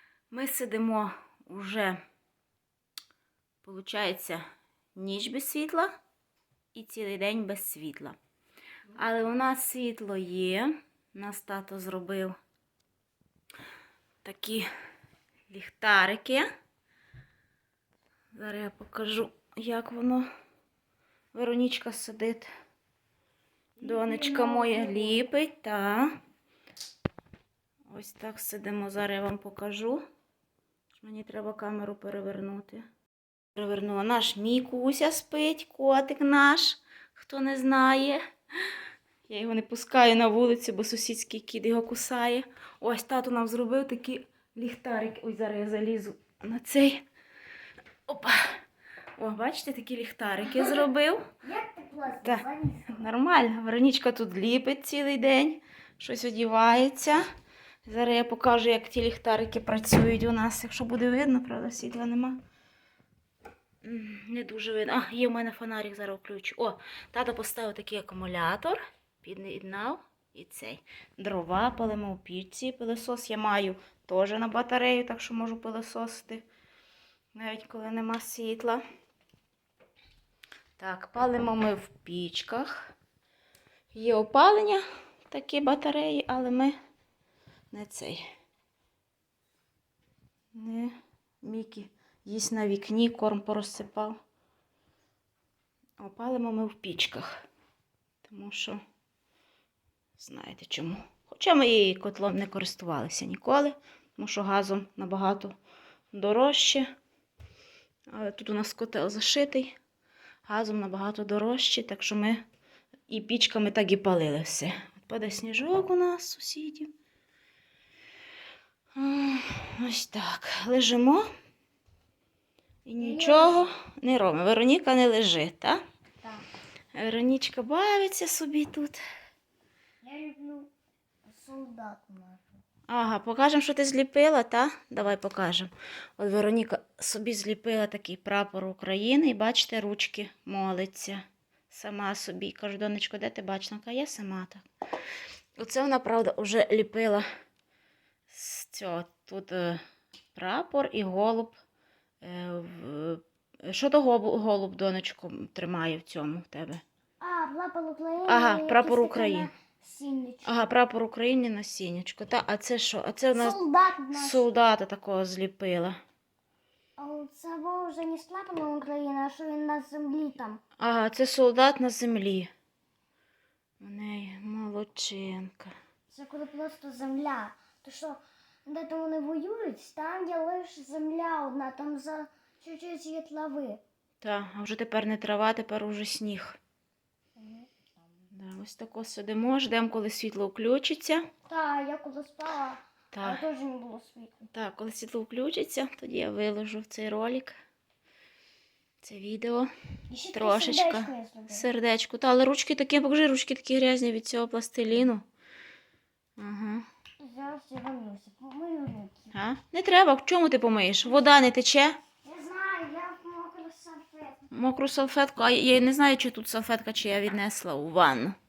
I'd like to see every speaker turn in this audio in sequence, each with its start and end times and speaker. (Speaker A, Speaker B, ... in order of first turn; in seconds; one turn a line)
Speaker A: 0.3-2.0
Speaker A: 3.6-4.4
Speaker A: 4.9-5.9
Speaker A: 6.7-8.2
Speaker A: 8.9-12.3
Speaker A: 14.2-14.7
Speaker A: 15.5-16.5
Speaker A: 18.3-20.2
Speaker A: 21.3-22.5
Speaker B: 23.8-25.3
Speaker A: 23.8-26.1
Speaker A: 27.9-30.0
Speaker A: 31.0-32.8
Speaker A: 33.5-38.2
Speaker A: 39.3-47.0
Speaker A: 48.1-48.6
Speaker A: 49.2-51.2
Speaker B: 50.5-50.8
Speaker B: 51.4-53.0
Speaker A: 52.2-57.2
Speaker A: 57.9-62.4
Speaker A: 63.8-76.4
Speaker A: 77.3-78.8
Speaker A: 80.8-82.9
Speaker A: 83.9-86.7
Speaker A: 87.7-88.2
Speaker A: 90.5-94.2
Speaker A: 96.0-97.4
Speaker A: 98.2-98.8
Speaker A: 100.2-105.5
Speaker A: 106.1-106.9
Speaker A: 108.1-109.7
Speaker A: 110.5-112.4
Speaker A: 113.1-116.9
Speaker A: 119.0-121.3
Speaker A: 122.8-125.8
Speaker B: 123.0-123.7
Speaker A: 126.9-129.0
Speaker B: 130.0-130.7
Speaker B: 131.3-132.4
Speaker A: 132.9-144.7
Speaker A: 145.6-147.2
Speaker A: 148.3-149.8
Speaker A: 150.3-151.6
Speaker A: 152.2-156.8
Speaker B: 157.2-160.6
Speaker A: 158.3-159.5
Speaker A: 160.4-163.6
Speaker B: 163.3-164.5
Speaker A: 164.1-166.0
Speaker B: 167.0-170.6
Speaker A: 170.8-172.5
Speaker A: 173.8-175.7
Speaker B: 176.1-183.8
Speaker A: 184.2-186.6
Speaker B: 187.4-187.7
Speaker A: 188.3-191.2
Speaker B: 191.5-194.4
Speaker A: 193.1-193.4
Speaker A: 194.5-197.5
Speaker A: 199.0-199.7
Speaker B: 200.1-201.7
Speaker A: 200.3-205.2
Speaker A: 206.4-206.8
Speaker B: 207.2-209.3
Speaker A: 209.3-212.0
Speaker B: 212.2-214.4
Speaker A: 214.5-218.3